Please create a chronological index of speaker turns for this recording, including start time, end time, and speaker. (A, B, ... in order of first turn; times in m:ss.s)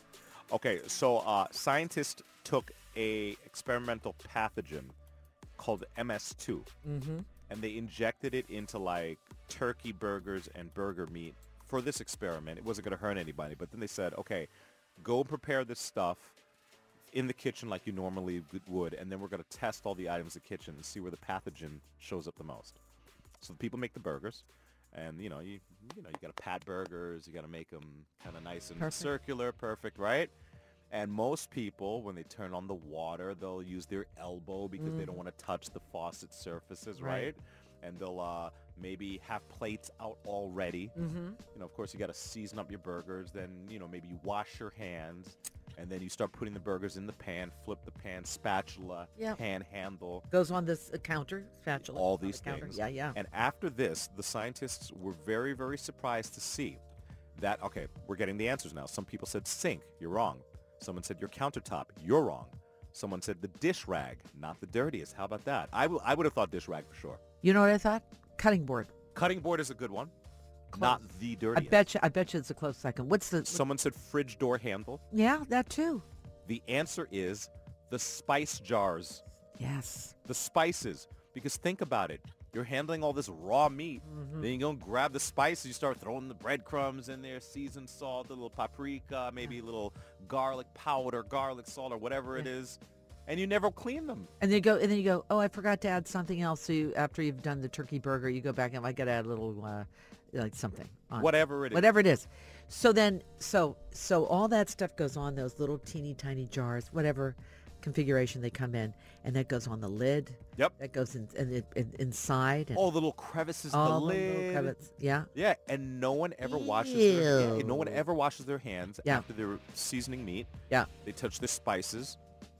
0:00.5-0:04.9 A
0:05.6-0:06.7 A
0:06.8-0:07.2 B
0:07.5-0:16.3 A
0:17.1-0:22.8 A
0:23.4-0:30.3 A
0:28.8-0:29.1 B
0:30.9-0:41.0 A
0:34.8-0:35.2 B
0:37.0-0:37.3 B
0:41.0-0:41.4 B
0:41.5-0:50.2 A
0:50.3-0:53.2 B
0:51.8-0:56.8 A
0:57.3-1:07.2 A
1:07.4-1:08.9 B
1:09.1-1:10.1 A
1:10.7-1:11.8 A
1:10.7-1:11.0 B
1:11.5-1:13.6 B
1:13.4-1:15.0 A
1:15.1-1:16.0 B
1:16.4-1:19.2 A
1:19.6-1:20.1 B
1:20.2-1:34.3 A
1:24.0-1:24.5 B
1:34.4-1:52.8 B
1:41.2-1:41.9 A
1:52.7-1:54.8 A
1:53.7-1:55.3 B
1:55.3-2:02.2 A
1:56.4-1:58.0 B